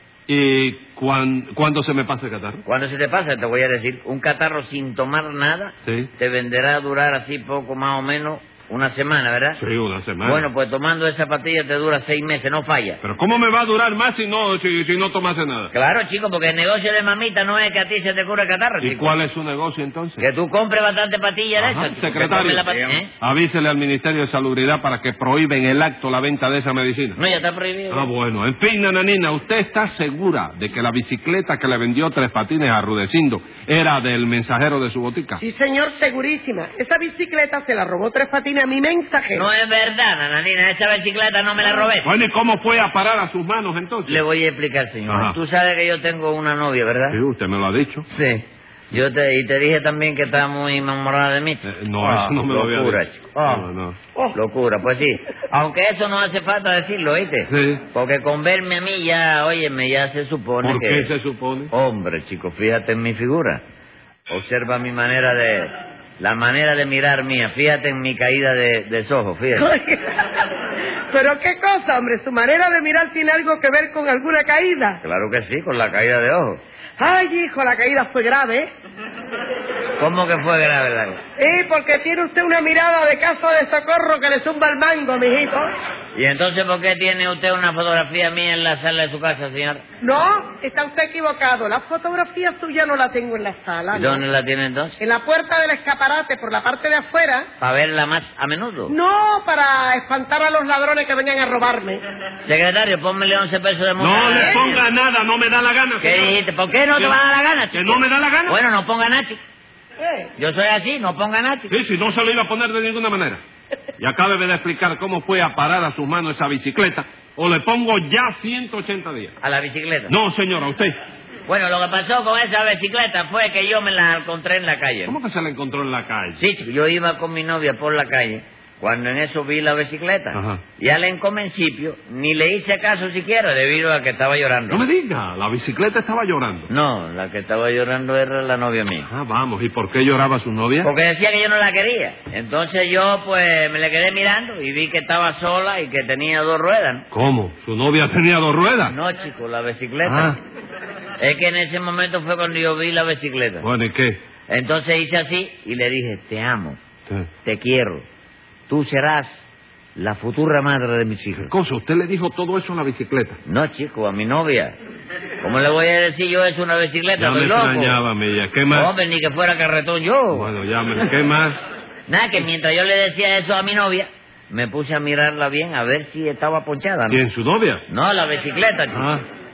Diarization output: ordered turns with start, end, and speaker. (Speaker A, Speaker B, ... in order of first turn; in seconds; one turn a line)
Speaker A: 0.3-2.6
Speaker B: 2.6-9.6
Speaker A: 9.6-10.5
Speaker B: 10.2-13.0
Speaker A: 13.0-15.7
Speaker B: 15.7-19.1
Speaker A: 18.8-20.2
Speaker B: 20.2-23.1
Speaker A: 21.6-27.2
Speaker B: 27.1-28.1
Speaker A: 27.9-35.4
Speaker C: 35.4-39.5
Speaker B: 39.3-42.1
Speaker A: 42.0-44.2
Speaker B: 44.1-47.2
Speaker A: 45.1-45.4
Speaker A: 47.1-48.1
Speaker B: 48.1-53.6
Speaker A: 51.6-54.0
Speaker B: 54.3-61.1
Speaker A: 57.5-57.8
Speaker A: 60.6-61.7
Speaker B: 61.7-63.6
Speaker B: 64.3-69.7
Speaker C: 69.5-70.5
Speaker C: 71.1-75.0
Speaker B: 75.0-76.6
Speaker C: 77.0-78.7
Speaker B: 80.0-81.2
Speaker C: 81.4-85.7
Speaker B: 86.1-89.8
Speaker C: 90.0-94.2
Speaker B: 93.9-95.0
Speaker C: 95.0-97.5
Speaker B: 97.6-99.0
Speaker C: 98.9-102.0
Speaker B: 102.5-104.8
Speaker A: 104.0-106.3
Speaker C: 104.3-104.7
Speaker B: 106.0-109.4
Speaker A: 107.7-108.6
Speaker C: 110.0-110.3
Speaker B: 110.4-111.7
Speaker A: 111.7-113.4
Speaker A: 114.0-119.3
Speaker B: 119.4-120.1
Speaker A: 120.1-121.0
Speaker B: 121.5-125.1
Speaker A: 125.0-126.4
Speaker B: 126.3-134.9
Speaker A: 130.3-130.6
Speaker A: 134.7-136.7
Speaker B: 136.7-139.1
Speaker A: 139.1-140.9
Speaker B: 140.8-147.0
Speaker A: 147.1-148.9
Speaker B: 148.9-150.3
Speaker A: 150.0-150.3
Speaker B: 151.2-153.7
Speaker A: 153.6-154.2
Speaker B: 154.5-156.8
Speaker B: 157.4-158.0
Speaker B: 158.7-161.5
Speaker A: 161.4-163.4
Speaker B: 163.4-164.8
Speaker B: 165.4-168.0
Speaker A: 167.2-168.9
Speaker B: 168.7-170.5
Speaker A: 170.3-171.6
Speaker B: 172.1-177.2
Speaker A: 177.1-177.8
Speaker B: 177.9-179.1
Speaker A: 178.9-179.2